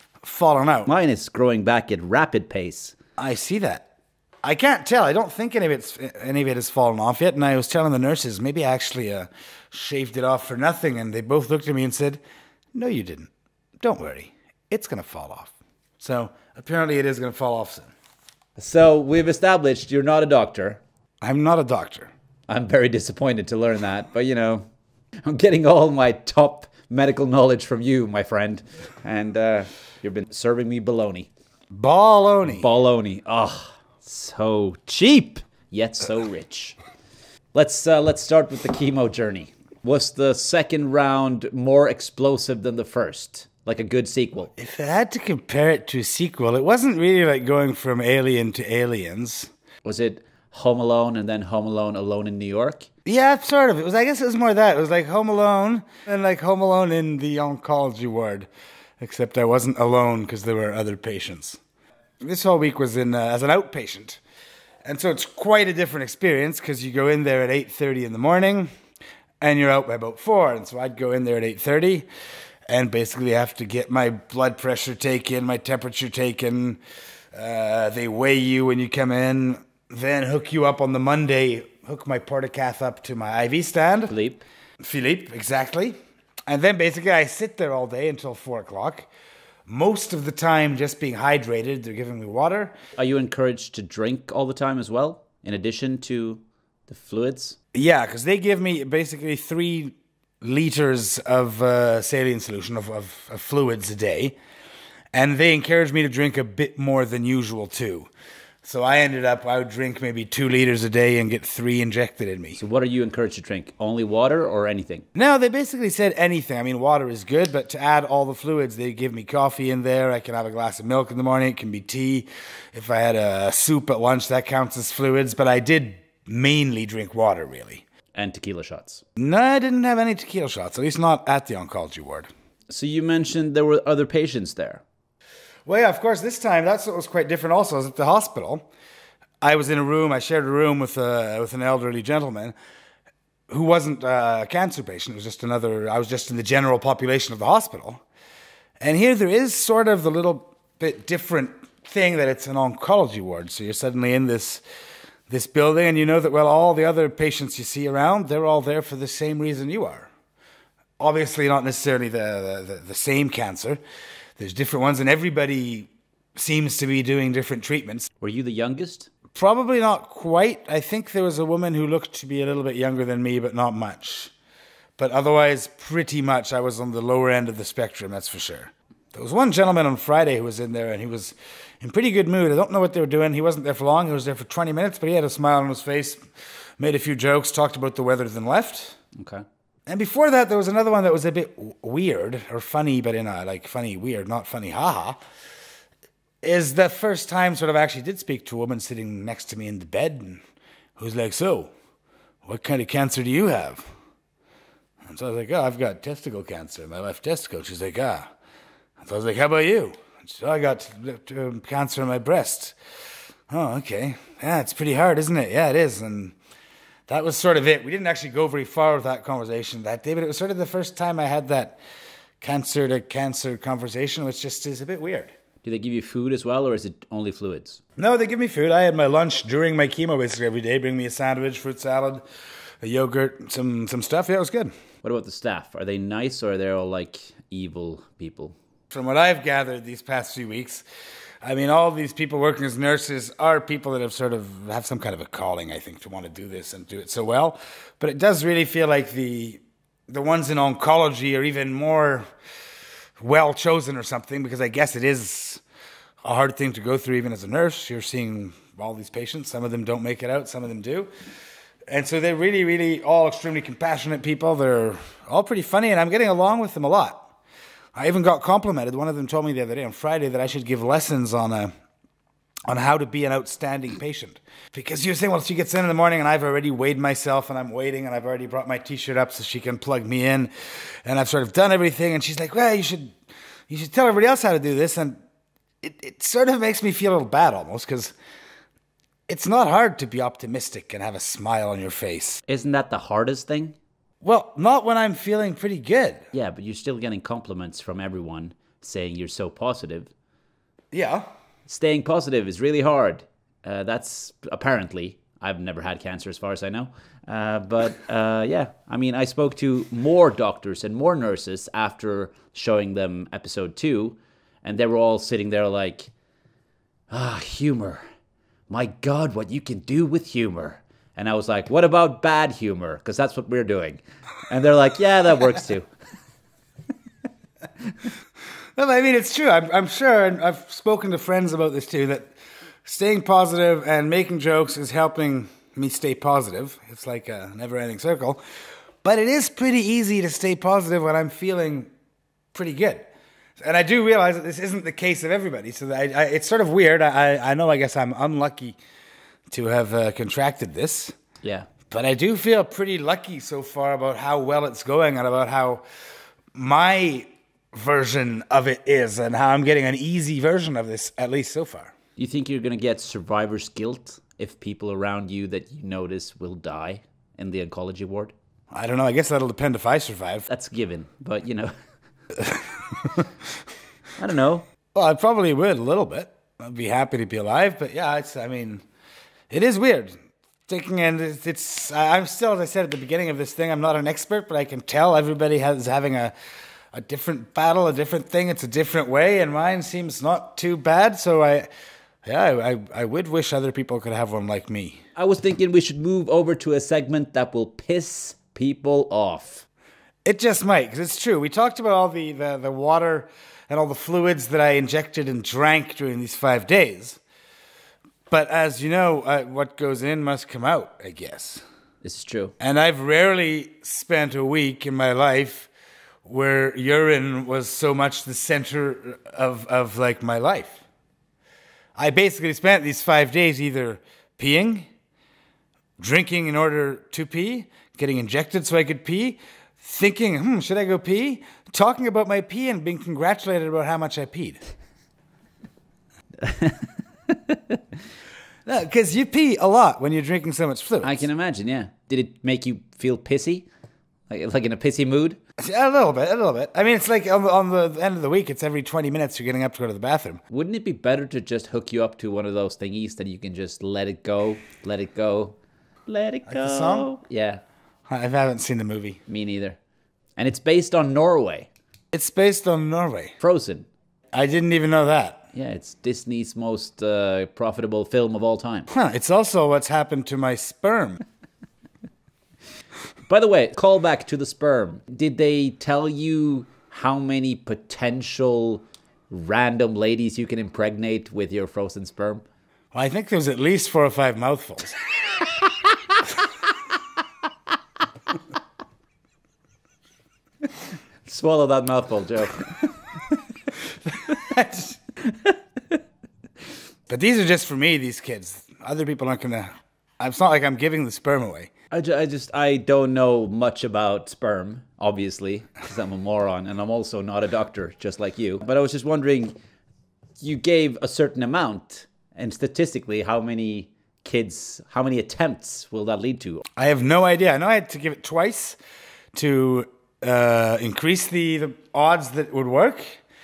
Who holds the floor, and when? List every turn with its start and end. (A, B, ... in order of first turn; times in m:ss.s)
0:00.2-0:00.9 A
0:00.9-0:03.0 B
0:03.2-0:03.9 A
0:04.4-0:12.2 A
0:12.7-0:17.9 A
0:18.6-0:20.8 B
0:21.2-0:22.1 A
0:22.5-0:24.7 B
0:25.2-0:31.3 B
0:31.7-0:32.7 A
0:32.5-0:36.8 B
0:37.5-0:44.5 B
0:44.6-0:49.5 A
0:49.8-0:52.9 B
0:53.1-0:58.5 A
0:59.0-1:01.6 A
1:02.2-1:04.2 A
1:04.8-1:08.7 A
1:09.4-1:12.1 A
1:12.7-1:16.8 A
1:17.3-1:24.2 A
1:24.1-1:24.4 B
1:24.8-1:26.0 A
1:26.5-1:29.1 A
1:29.7-1:32.8 A
1:33.0-1:37.6 B
1:37.7-1:44.4 A
1:45.1-1:48.1 A
1:48.6-1:52.6 A
1:52.6-1:55.1 B
1:55.2-2:07.8 A
2:08.1-2:09.0 B
2:09.2-2:12.3 A
2:12.7-2:14.8 B
2:15.7-2:18.7 A
2:19.4-2:22.6 A
2:23.5-2:28.0 A
2:28.8-2:34.6 A
2:35.3-2:40.1 A
2:41.0-2:43.8 A
2:44.4-2:48.1 A
2:48.2-2:49.1 B
2:49.3-2:54.3 A
2:55.0-3:06.2 A
3:06.8-3:09.0 A
3:09.2-3:09.4 B
3:09.9-3:15.2 A
3:16.4-3:20.4 A
3:21.0-3:21.7 A
3:22.4-3:23.9 A
3:25.1-3:28.3 A
3:29.0-3:32.8 A
3:33.5-3:36.4 A
3:37.1-3:41.8 A
3:42.4-3:45.3 A
3:45.6-3:47.8 B
3:48.0-3:52.2 A
3:52.8-3:54.7 A
3:55.0-3:58.6 B
3:58.9-4:00.8 A
4:01.4-4:12.3 A
4:13.2-4:15.6 A
4:16.2-4:21.1 A
4:21.9-4:27.3 A
4:28.0-4:31.7 A
4:32.7-4:40.5 A
4:41.0-4:43.2 A
4:43.7-4:45.2 A
4:45.8-4:48.1 A
4:49.3-4:52.4 A
4:52.5-4:53.8 B
4:54.2-4:56.3 A
4:56.3-5:00.1 B
5:00.9-5:01.3 A
5:01.7-5:16.1 B
5:17.1-5:18.0 B
5:18.7-5:25.9 B
5:28.8-5:32.3 A
5:32.8-5:38.4 A
5:39.0-5:41.9 A
5:42.5-5:48.8 A
5:49.5-5:51.2 A
5:51.4-5:51.7 B
5:51.9-5:55.8 A
5:56.5-6:01.9 A
6:02.2-6:08.3 B
6:08.7-6:10.5 A
6:10.5-6:11.7 B
6:12.4-6:12.6 A
6:14.2-6:14.7 B
6:14.9-6:18.8 A
6:19.5-6:26.3 A
6:26.9-6:31.7 A
6:32.2-6:35.0 A
6:35.2-6:39.7 B
6:40.2-6:47.2 A
6:48.3-6:51.6 A
6:52.0-6:52.5 B
6:52.6-6:55.7 A
6:56.2-7:00.8 A
7:02.0-7:04.9 A
7:06.0-7:14.6 A
7:16.4-7:17.8 B
7:18.7-7:21.2 A
7:21.0-7:23.7 B
7:24.3-7:25.4 B
7:25.6-7:30.4 A
7:30.5-7:35.6 B
7:36.1-7:37.6 B
7:36.5-7:37.1 A
7:38.1-7:39.2 A
7:39.3-7:39.8 B
7:40.4-7:41.7 B
7:42.1-7:43.4 A
7:43.4-7:43.9 B
7:44.3-7:45.5 A
7:45.5-7:48.9 B
7:48.9-7:51.2 A
7:53.3-8:02.4 B
8:02.9-8:05.0 A
8:11.3-8:13.4 B
8:14.1-8:15.0 A
8:17.1-8:21.7 A
8:21.9-8:29.6 B
8:30.4-8:36.6 B
8:36.8-8:38.8 A
8:39.3-8:43.2 A